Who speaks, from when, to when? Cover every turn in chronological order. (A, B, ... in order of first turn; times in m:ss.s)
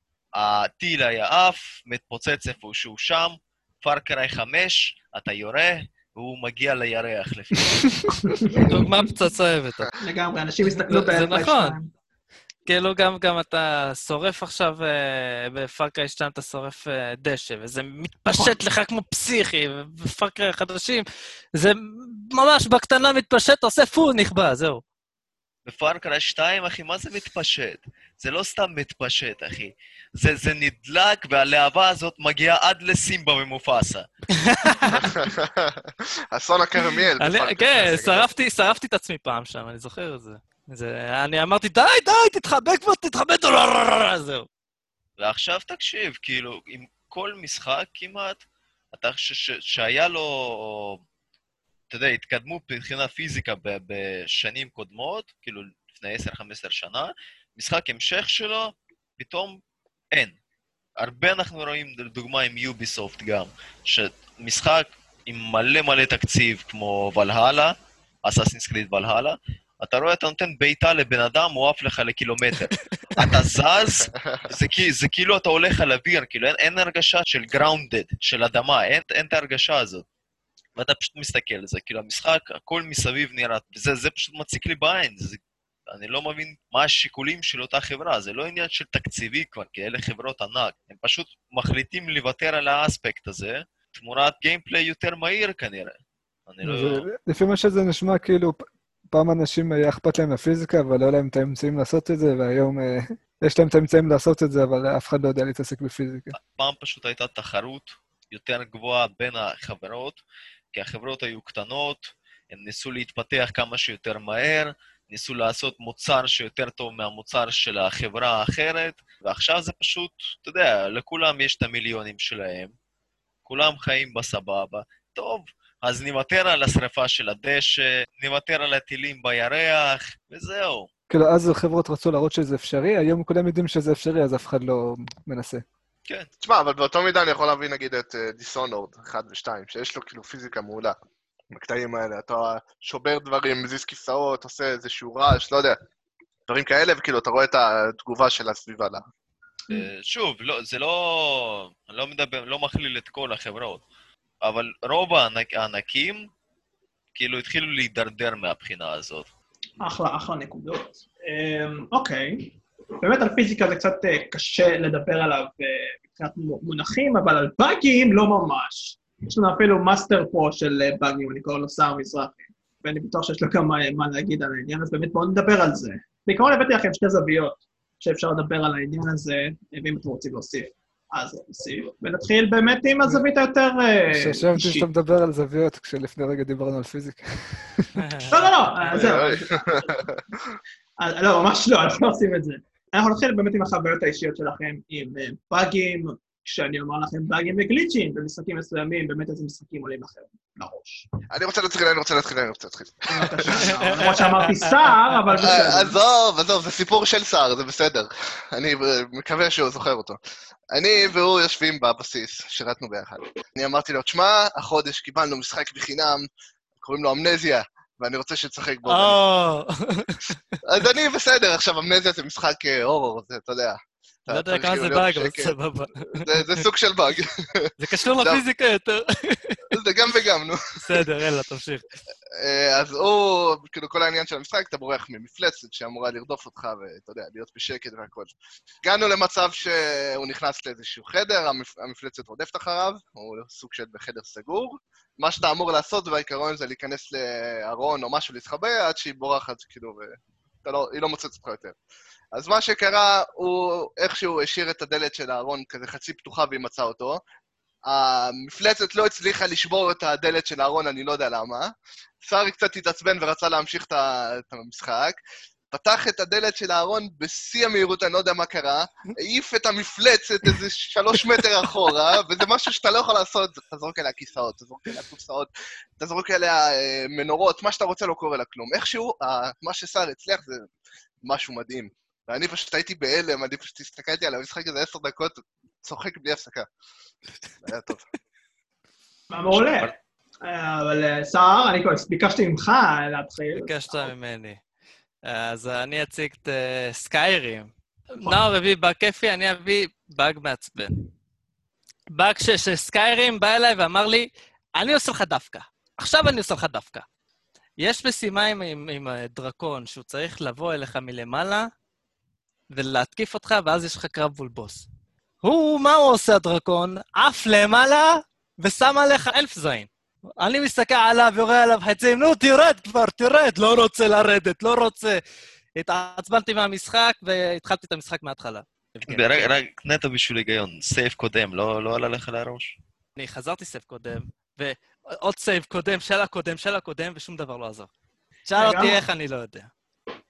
0:00.3-0:08.1 A
0:08.2-0:08.8 B
0:08.6-0:09.9 C
0:10.0-0:11.9 B
0:10.9-0:11.8 C
0:12.6-0:24.8 C
0:25.6-0:34.1 A
0:34.3-0:35.0 C
0:34.9-0:38.3 D
0:37.2-0:44.5 C
0:45.2-0:48.4 A
0:48.9-0:51.0 A
0:51.9-0:59.6 A
1:01.0-1:20.0 A
1:20.8-1:35.9 A
1:36.5-1:37.0 A
1:36.6-1:46.3 E
1:46.3-1:50.2 A
1:50.7-2:02.7 A
2:03.4-2:10.9 A
2:11.1-2:15.6 E
2:16.4-2:21.0 D
2:21.5-2:25.8 D
2:26.5-2:29.0 D
2:29.7-2:33.8 A
2:34.4-2:36.3 A
2:37.1-2:39.3 A
2:39.8-3:04.9 B
3:04.1-3:08.0 E
3:08.0-3:08.5 C
3:08.3-3:10.1 B
3:08.9-3:10.2 D
3:11.0-3:21.1 B
3:21.3-3:24.0 D
3:23.1-3:26.0 B
3:23.5-3:25.5 C
3:25.3-3:30.2 D
3:30.7-3:36.3 D
3:36.8-3:39.2 D
3:38.8-3:40.4 C
3:40.6-3:45.6 D
3:44.3-3:46.6 C
3:46.2-3:48.4 D
3:47.8-3:49.6 C
3:49.7-3:50.6 D
3:50.8-3:51.8 C
3:52.4-3:58.3 D
3:58.8-4:11.8 D
4:12.3-4:17.2 D
4:17.8-4:21.7 D
4:22.2-4:25.2 D
4:25.7-4:40.7 D
4:41.2-4:46.7 D
4:47.6-4:48.0 D
4:49.3-4:54.1 B
4:49.5-4:49.9 A
4:53.5-4:54.6 C
4:55.2-5:01.0 C
5:02.1-5:07.0 C
5:07.8-5:11.7 C
5:12.7-5:14.8 C
5:15.4-5:19.9 C
5:20.4-5:25.2 C
5:25.8-5:29.5 C
5:29.0-5:32.7 A
5:33.2-5:37.9 C
5:38.4-5:39.7 C
5:38.6-5:39.0 B